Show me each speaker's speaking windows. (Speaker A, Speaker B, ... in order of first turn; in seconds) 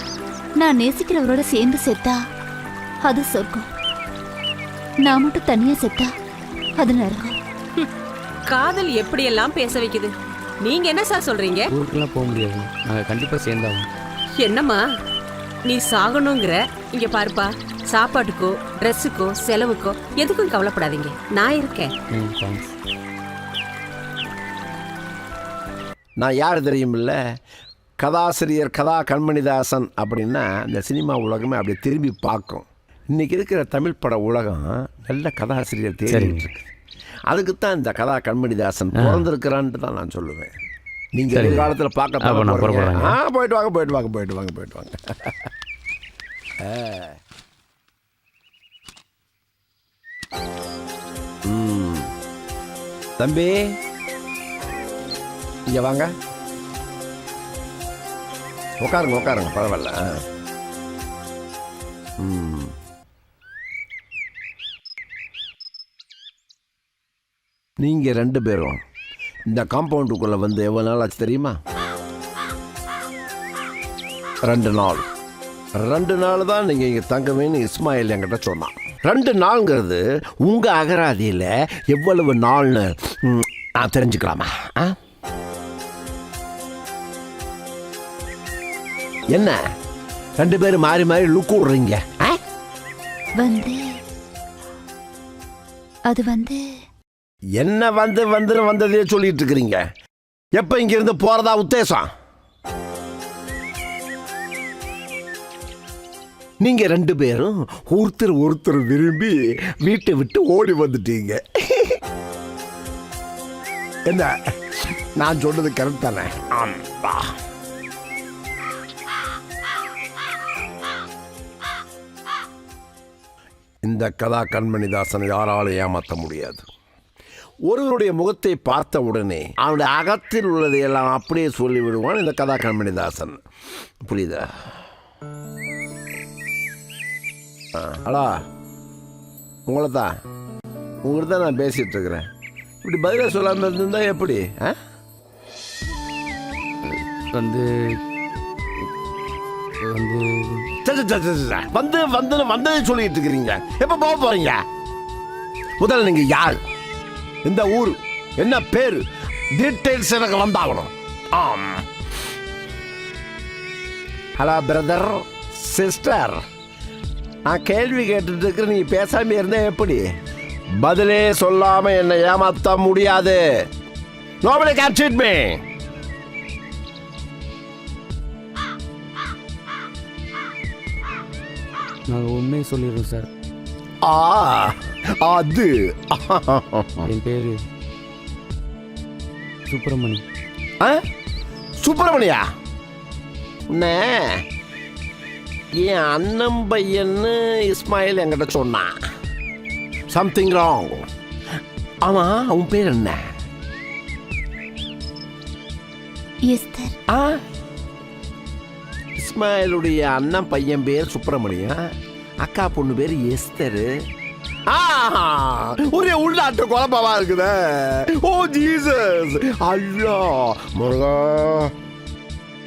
Speaker A: 0.6-2.2, 3.0-3.7, 5.1-6.1, 6.8-7.3, 93.4-93.9, 96.1-96.6, 206.5-206.9
Speaker B: 8.5-11.7, 14.4-14.8, 15.7-21.9
Speaker C: 11.7-13.9, 22.1-22.7, 36.1-36.5, 39.0-39.3, 41.3-41.7, 42.2-43.2, 146.9-147.7, 149.9-150.7, 182.1-183.3, 187.1-187.6, 189.7-190.2
Speaker D: 26.2-27.2, 28.0-36.7, 37.3-40.5, 41.2-45.5, 46.6-47.2, 51.5-52.1, 53.2-53.8, 55.7-56.1, 58.8-60.2, 62.2-62.7, 67.8-68.8, 69.5-71.6, 74.5-75.0, 75.8-85.0, 90.4-92.4, 97.6-99.8, 100.5-102.1, 106.6-112.0, 115.2-117.4, 123.8-126.7, 127.7-133.4, 134.1-134.7, 137.8-138.4, 139.7-140.1, 141.1-142.3, 142.8-144.8, 150.8-154.6, 155.8-156.6, 157.4-159.0, 159.6-161.9, 164.4-166.4, 167.5-170.1, 170.8-173.4, 174.4-175.6, 184.1-187.1, 191.8-192.4, 193.7-194.4, 195.8-199.0, 200.1-201.1, 202.0-203.2, 207.1-207.4, 209.2-211.8, 212.4-213.9, 214.7-221.7